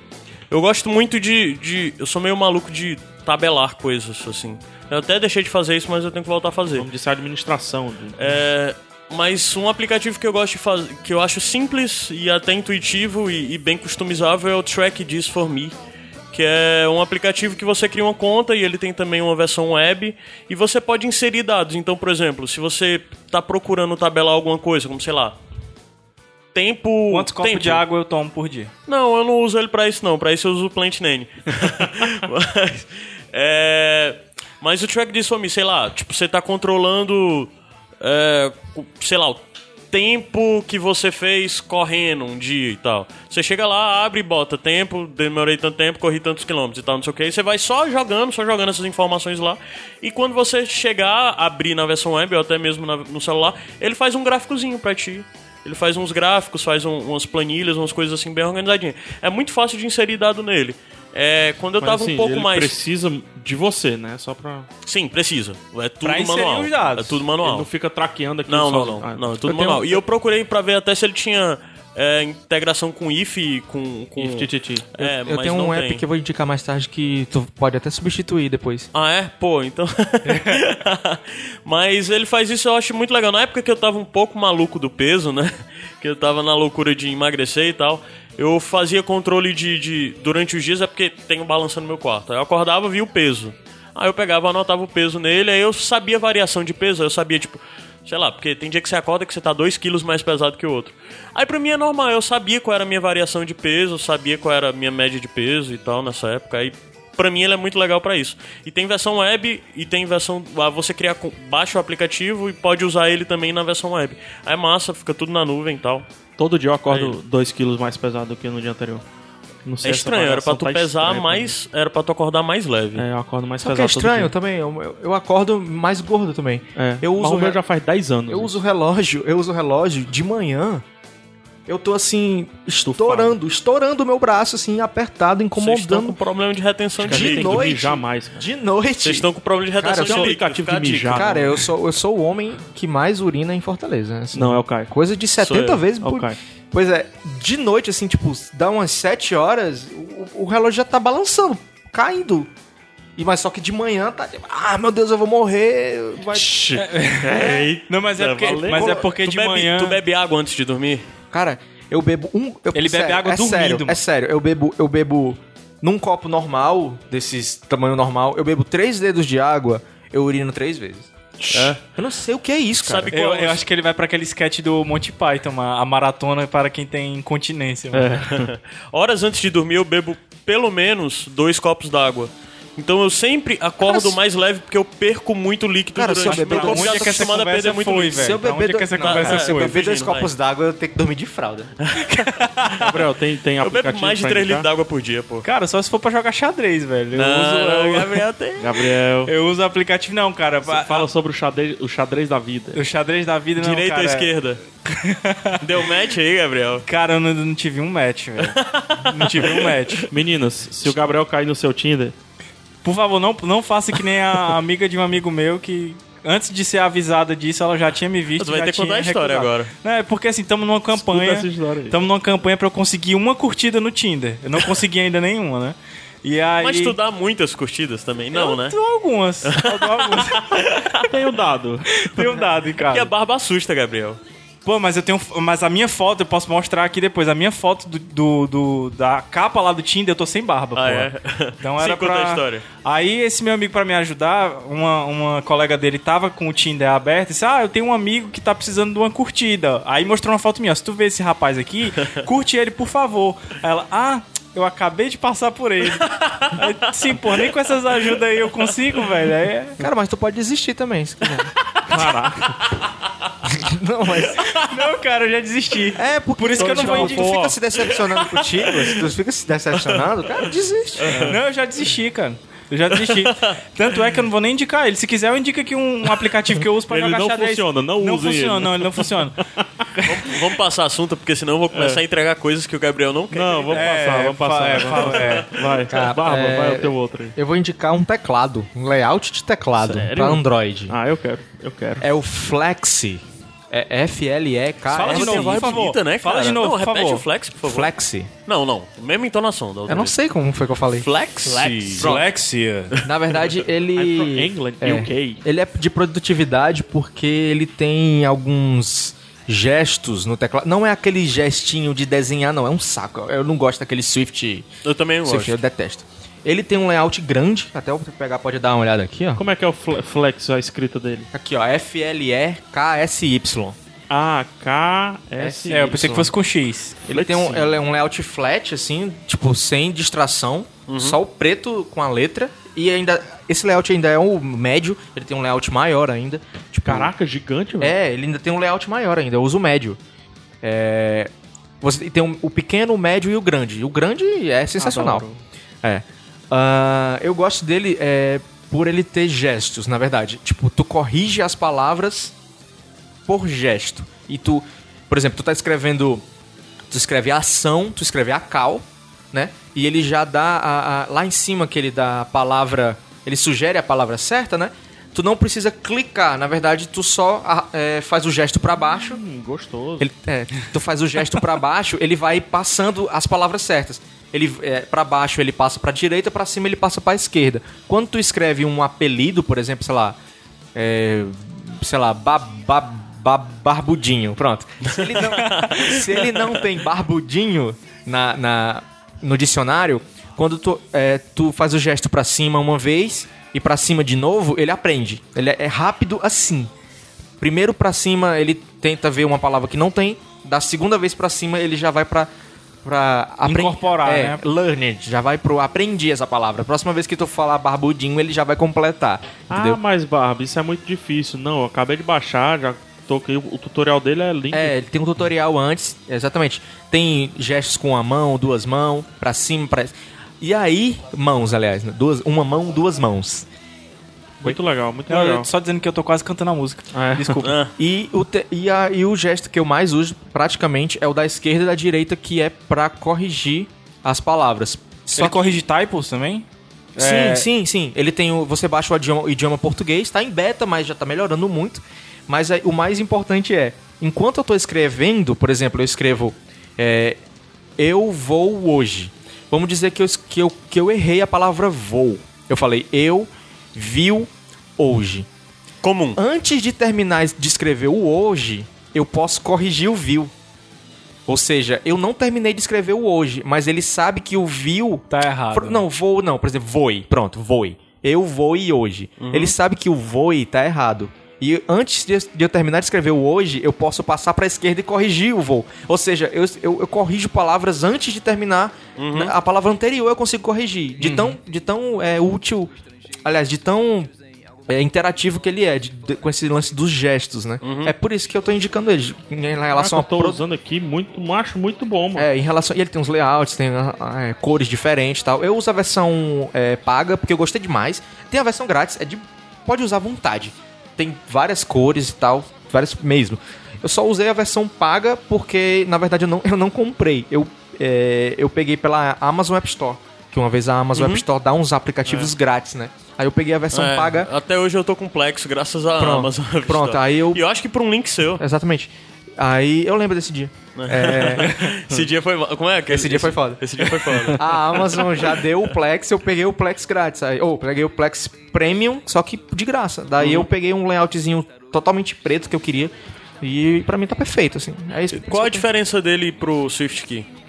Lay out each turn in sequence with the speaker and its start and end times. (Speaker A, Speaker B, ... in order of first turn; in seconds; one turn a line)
Speaker A: 0.5-6.9
Speaker B: 6.8-8.4
Speaker A: 8.2-15.7
Speaker A: 16.3-25.4
Speaker A: 26.5-27.8
Speaker C: 27.1-28.7
Speaker A: 28.9-62.8
Speaker B: 61.8-64.7
Speaker A: 64.8-67.7
Speaker C: 66.0-67.2
Speaker B: 67.4-69.5
Speaker A: 68.5-76.0
Speaker D: 69.5-70.0
Speaker B: 74.2-74.9
Speaker D: 75.0-78.9
Speaker A: 78.9-116.0
Speaker C: 80.2-80.6
Speaker B: 116.4-119.0
Speaker A: 116.9-117.2
Speaker B: 119.6-121.5
Speaker A: 119.8-123.1
Speaker B: 122.9-124.3
Speaker D: 123.6-127.6
Speaker B: 126.8-128.6
Speaker D: 128.3-130.8
Speaker D: 131.7-136.2
Speaker B: 132.8-133.3
Speaker A: 135.6-137.8
Speaker B: 137.0-138.4
Speaker D: 137.1-140.4
Speaker A: 139.0-141.4
Speaker B: 140.0-141.5
Speaker D: 141.1-152.5
Speaker B: 144.3-144.9
Speaker A: 145.4-145.8
Speaker B: 146.0-146.4
Speaker D: 153.2-156.7
Speaker B: 156.4-158.9
Speaker C: 156.8-160.0
Speaker A: 158.2-161.1
Speaker D: 161.3-173.1
Speaker C: 162.7-164.0
Speaker A: 171.4-171.8
Speaker A: 172.8-173.6
Speaker C: 173.1-178.2
Speaker B: 177.9-178.5
Speaker A: 178.3-188.3
Speaker D: 183.8-184.2
Speaker D: 185.9-187.3
Speaker C: 186.2-189.8
Speaker D: 188.1-191.7
Speaker A: 189.0-190.3
Speaker A: 191.8-192.8
Speaker C: 192.0-192.8
Speaker B: 192.8-194.7
Speaker A: 193.6-195.4
Speaker C: 195.4-198.2
Speaker A: 197.1-198.9
Speaker B: 198.6-199.3
Speaker C: 199.2-201.1
Speaker B: 200.6-202.8
Speaker C: 202.7-204.3
Speaker A: 203.6-204.6
Speaker C: 204.8-205.6
Speaker A: 205.6-206.8
Speaker C: 206.8-210.1
Speaker A: 208.4-210.0
Speaker B: 210.1-212.1
Speaker C: 212.8-227.0
Speaker A: 218.4-219.7
Speaker B: 220.9-222.0
Speaker A: 226.6-228.8
Speaker C: 228.3-230.7
Speaker A: 229.4-231.1
Speaker B: 231.1-232.4
Speaker C: 231.9-233.1
Speaker A: 232.9-234.2
Speaker C: 234.7-259.8
Speaker A: 240.7-242.7
Speaker A: 256.1-256.5
Speaker D: 259.8-261.5
Speaker B: 261.9-262.6
Speaker D: 263.4-264.4
Speaker C: 264.4-267.4
Speaker D: 265.9-271.3
Speaker B: 266.6-267.5
Speaker A: 267.5-269.0
Speaker A: 271.0-271.4
Speaker B: 271.1-271.4
Speaker C: 271.2-279.4
Speaker A: 272.9-273.6
Speaker B: 276.9-279.9
Speaker A: 280.0-283.9
Speaker B: 281.7-282.0
Speaker B: 283.3-287.3
Speaker C: 283.7-285.5
Speaker A: 285.0-285.6
Speaker D: 285.9-291.0
Speaker B: 289.8-292.1
Speaker D: 292.0-295.8
Speaker C: 294.9-297.2
Speaker A: 295.0-297.9
Speaker D: 297.6-298.3
Speaker A: 298.4-300.2
Speaker D: 299.9-301.1
Speaker A: 300.9-302.1
Speaker C: 301.4-303.0
Speaker D: 302.0-302.3
Speaker D: 303.0-314.7
Speaker B: 303.9-305.4
Speaker A: 314.8-315.6
Speaker D: 315.2-319.4
Speaker B: 319.4-321.3
Speaker D: 321.3-323.8
Speaker B: 324.1-326.3
Speaker D: 325.4-326.2
Speaker C: 325.7-327.0
Speaker D: 327.1-337.1
Speaker B: 327.1-327.7
Speaker A: 330.9-331.2
Speaker B: 336.9-337.9
Speaker D: 337.8-340.0
Speaker D: 340.6-345.3
Speaker B: 344.8-345.4
Speaker D: 345.8-352.3
Speaker D: 353.2-356.2
Speaker D: 356.9-369.2
Speaker B: 368.8-370.1
Speaker D: 370.0-380.2
Speaker D: 380.7-396.7
Speaker A: 384.9-386.6
Speaker D: 397.4-402.3
Speaker D: 402.8-409.8
Speaker C: 403.4-404.4
Speaker B: 409.5-414.7
Speaker D: 414.5-423.5
Speaker B: 424.4-425.5
Speaker C: 425.1-427.6
Speaker B: 426.9-427.4
Speaker A: 427.4-427.7
Speaker D: 427.8-435.6
Speaker C: 435.1-437.5
Speaker D: 437.0-447.2
Speaker D: 447.8-455.3
Speaker A: 455.8-456.2
Speaker D: 456.1-460.3
Speaker D: 461.3-482.7
Speaker C: 465.1-465.8
Speaker A: 469.2-469.5
Speaker A: 479.0-479.3
Speaker A: 481.0-481.3
Speaker D: 483.2-484.1
Speaker D: 484.7-490.4
Speaker A: 487.6-487.9
Speaker B: 489.7-492.3
Speaker D: 492.1-514.3
Speaker A: 510.9-511.2
Speaker A: 513.7-518.4
Speaker D: 516.0-517.4
Speaker D: 518.4-521.7
Speaker A: 520.8-525.5
Speaker D: 522.9-535.7
Speaker A: 530.2-530.5
Speaker A: 535.1-537.3